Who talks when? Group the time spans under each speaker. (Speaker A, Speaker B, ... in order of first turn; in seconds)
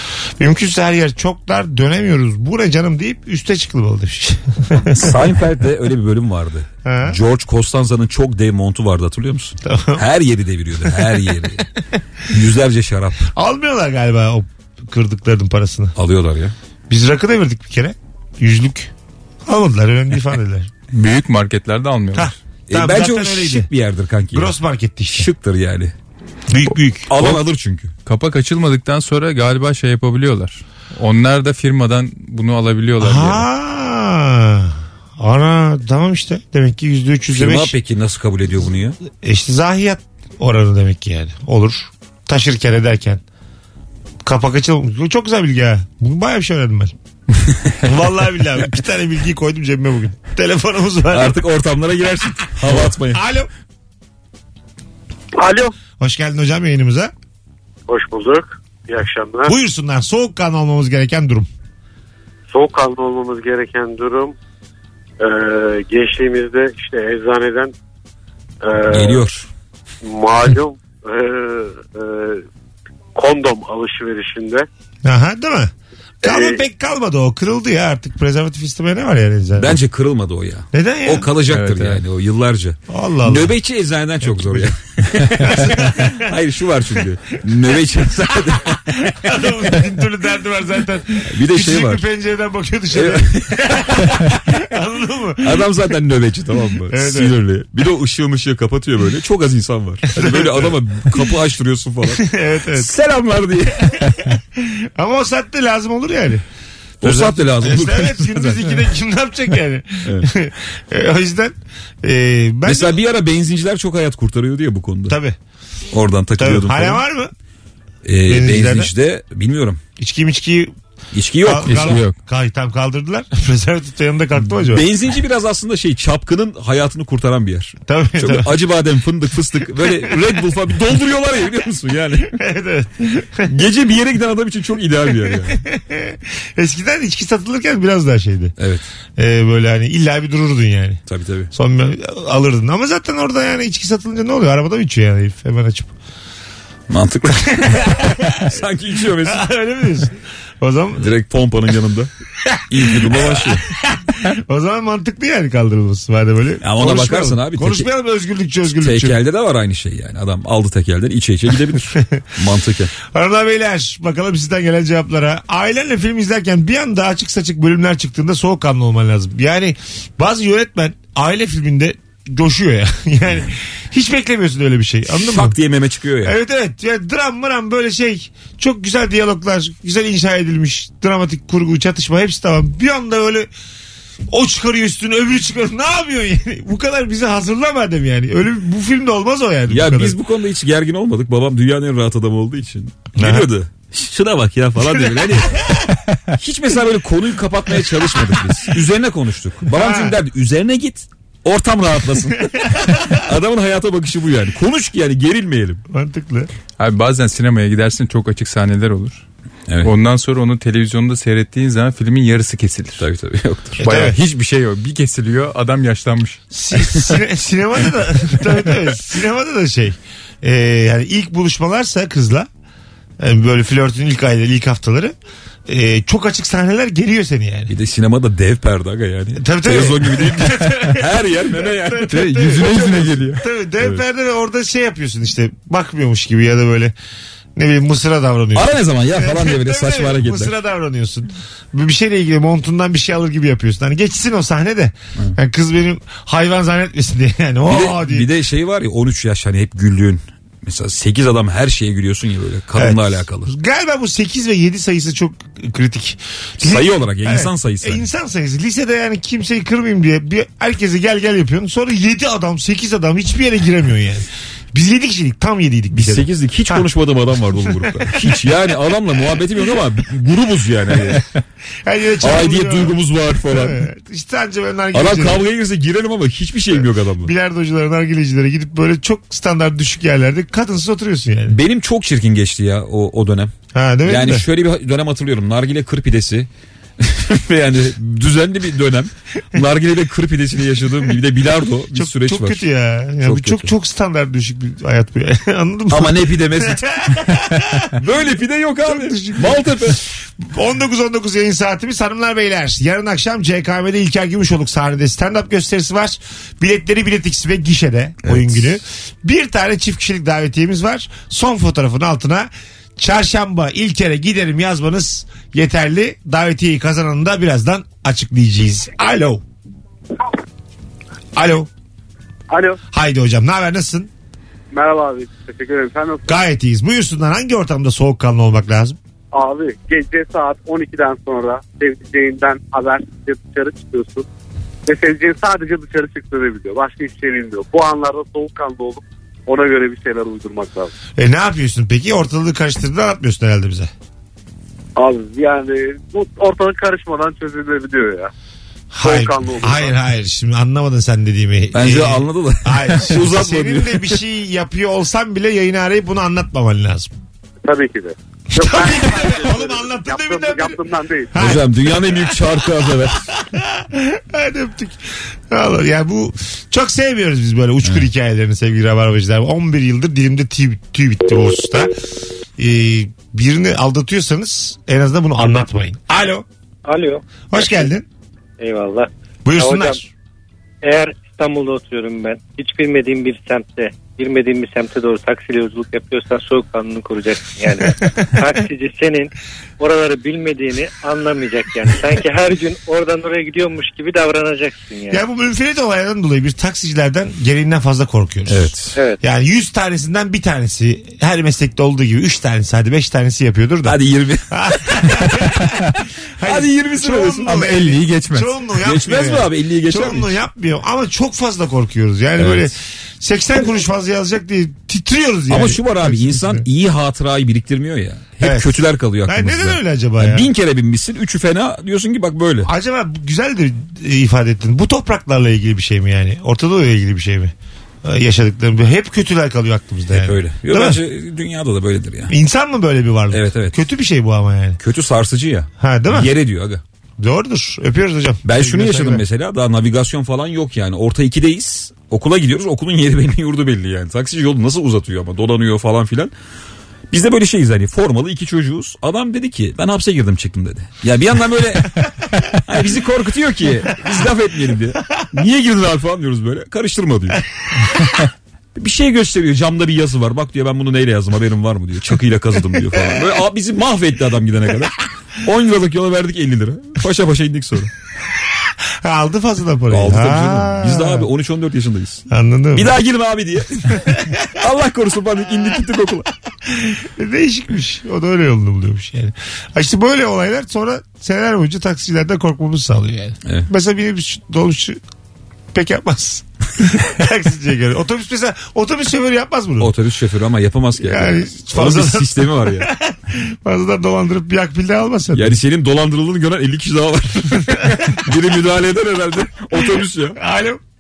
Speaker A: 0.4-5.3, 6.8-7.2, 9.6-10.1, 10.8-11.2, 13.3-15.9, 16.9-18.9, 19.5-20.7, 22.1-23.7, 24.3-25.3, 26.5-27.1, 33.0-37.7, 39.2-43.2, 44.2-46.9, 47.8-51.4, 53.0-53.5, 56.0-57.1, 59.5-61.5, 75.0-75.7, 76.2-79.8, 80.7-81.3, 82.9-83.5, 84.2-84.7, 85.4-86.2, 88.3-95.6, 96.9-97.3, 100.2-101.3, 102.1-102.9, 104.5-106.4, 107.0-113.0, 115.1-115.4, 116.4-117.3, 118.2-118.9, 120.0-120.7, 121.4-124.8, 127.9-128.6, 129.8-130.1, 132.3-133.5, 135.3-138.5, 139.2-141.0, 141.5-145.9, 147.3-148.6, 149.2-151.1, 152.4-159.2, 161.9-162.2, 163.1-175.6, 176.2-183.5, 184.3-190.2, 193.2-193.5, 199.7-200.2, 205.9-206.5, 213.8-214.2, 216.5-222.5, 223.2-225.2, 225.7-227.7, 229.4-236.9, 237.6-248.3, 252.8-266.9, 267.6-268.4, 271.9-275.4, 277.2-281.6, 283.7-284.4, 291.9-297.9, 298.8-319.4, 321.4-321.7, 322.9-324.1, 326.3-329.0, 341.2-343.9, 348.9-357.1, 358.5-360.8, 361.3-362.2, 363.3-371.9, 372.6-376.5, 377.5-378.1, 379.4-380.1, 395.1-404.0, 404.5-416.6, 418.4-420.5, 422.6-431.0, 432.3-434.8, 435.8-436.3, 437.2-439.2, 469.0-471.3, 472.3-473.0, 474.0-474.4, 476.7-485.0, 485.7-489.9, 491.0-495.6, 497.7-498.2, 500.4-500.8
Speaker B: 4.8-11.7, 12.3-13.3, 16.0-16.5, 22.7-24.6, 25.1-25.9, 27.1-27.9, 37.4-39.0, 51.1-53.2, 68.9-69.5, 79.6-89.1, 91.2-92.0, 92.9-94.2, 95.4-104.3, 107.0-108.6, 112.7-115.2, 115.9-117.0, 118.0-119.8, 121.1-122.0, 124.6-132.4, 133.4-135.6, 138.6-138.8, 141.1-141.5, 146.9-149.4, 151.0-152.1, 152.7-153.7, 156.6-157.9, 158.8-162.9, 175.2-176.4, 189.7-195.7, 196.4-205.8, 209.7-209.9, 213.0-213.8, 227.7-233.2, 238.6-240.5, 247.7-253.5, 256.6-258.1, 265.9-271.3, 272.2-273.8, 274.9-277.3, 281.5-283.5, 284.1-286.5, 287.0-292.7, 293.2-293.7, 295.9-297.2, 297.9-300.1, 308.2-308.7, 351.7-354.2, 361.4-363.3, 398.5-399.0, 403.8-405.2, 406.4-407.6, 408.8-410.4, 412.4-412.7, 415.5-422.7, 430.1-432.3, 433.3-433.8, 434.8-436.8, 438.4-446.3, 447.1-457.4, 458.8-467.9, 469.9-476.3, 489.8-492.9, 495.3-500.4
Speaker C: 20.9-22.4, 28.1-33.5, 81.5-82.0, 121.7-122.1, 206.8-209.2, 209.8-213.1, 213.8-216.4, 232.1-233.4, 407.5-408.5
Speaker D: 55.4-55.7, 57.9-59.5, 62.5-64.3, 65.2-67.7, 68.6-69.3, 70.0-72.4, 73.2-74.7, 76.2-76.6, 322.5-322.8, 324.7-326.4, 329.3-334.3, 334.9-340.9, 345.0-348.3, 349.0-349.9, 357.6-361.3
Speaker E: 376.9-377.9, 378.6-380.0, 380.8-395.2, 399.0-399.2